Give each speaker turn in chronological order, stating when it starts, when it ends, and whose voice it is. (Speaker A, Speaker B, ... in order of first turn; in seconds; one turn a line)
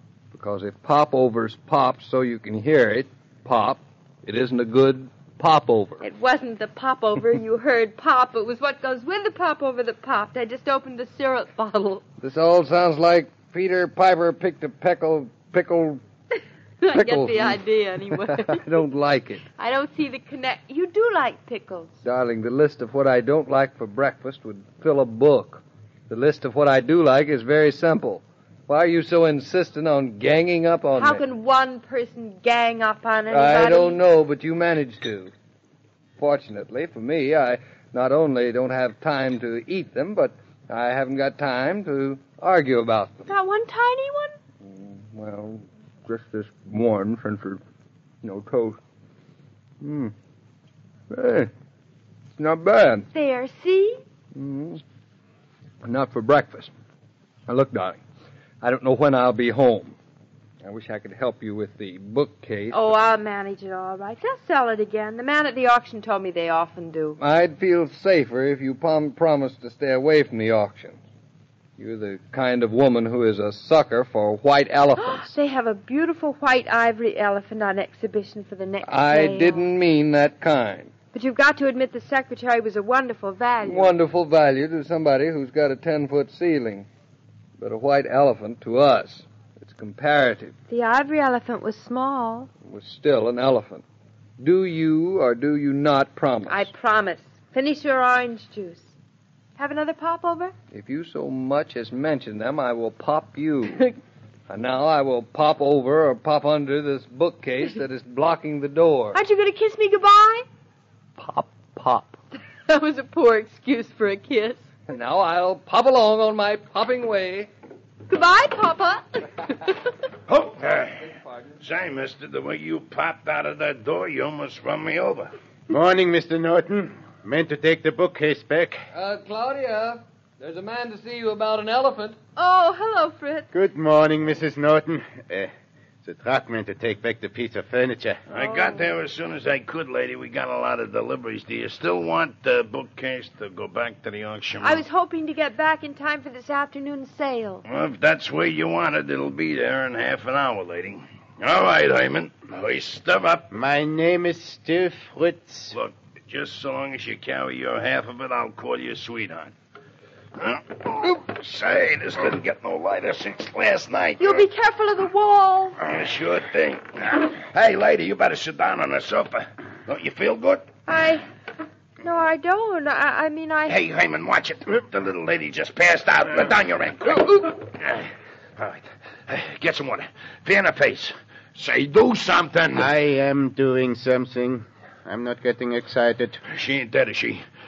Speaker A: 0.3-6.0
Speaker B: 6.0-12.0
Speaker A: 12.2-16.0
Speaker B: 16.8-18.8
Speaker A: 16.9-17.6
Speaker A: 18.1-19.4
Speaker B: 19.6-22.0
Speaker A: 22.0-31.2
Speaker B: 31.0-34.0
Speaker A: 33.3-35.3
Speaker A: 36.2-43.3
Speaker B: 43.3-44.4
Speaker A: 44.6-47.6
Speaker A: 48.2-48.8
Speaker A: 49.8-50.1
Speaker A: 51.1-51.5
Speaker A: 52.4-53.1
Speaker B: 53.1-54.0
Speaker A: 54.3-54.8
Speaker A: 55.8-56.7
Speaker A: 57.5-58.0
Speaker A: 58.6-60.0
Speaker A: 60.6-62.8
Speaker B: 62.7-67.2
Speaker A: 67.2-71.0
Speaker A: 71.8-75.3
Speaker B: 75.0-79.7
Speaker A: 78.8-80.9
Speaker B: 81.1-83.9
Speaker A: 83.6-86.9
Speaker A: 87.6-90.5
Speaker B: 90.7-92.5
Speaker A: 92.6-93.8
Speaker A: 94.4-96.7
Speaker B: 96.5-98.9
Speaker B: 99.6-100.5
Speaker A: 100.7-103.8
Speaker A: 104.5-109.2
Speaker B: 109.1-110.5
Speaker A: 111.2-112.2
Speaker B: 112.7-114.6
Speaker A: 114.9-117.5
Speaker B: 118.1-119.9
Speaker C: 120.3-121.0
Speaker A: 121.0-121.5
Speaker C: 121.6-125.3
Speaker D: 125.7-128.8
Speaker A: 128.9-132.2
Speaker B: 132.3-133.5
Speaker D: 133.5-135.5
Speaker D: 136.0-138.2
Speaker C: 138.3-144.8
Speaker B: 138.3-138.9
Speaker B: 144.6-147.6
Speaker C: 147.6-153.5
Speaker D: 153.5-155.7
Speaker C: 155.7-159.5
Speaker C: 160.3-164.5
Speaker B: 164.2-165.8
Speaker C: 165.8-170.7
Speaker B: 170.9-171.2
Speaker B: 172.0-173.8
Speaker C: 173.7-182.9
Speaker D: 182.7-186.4
Speaker C: 186.5-187.4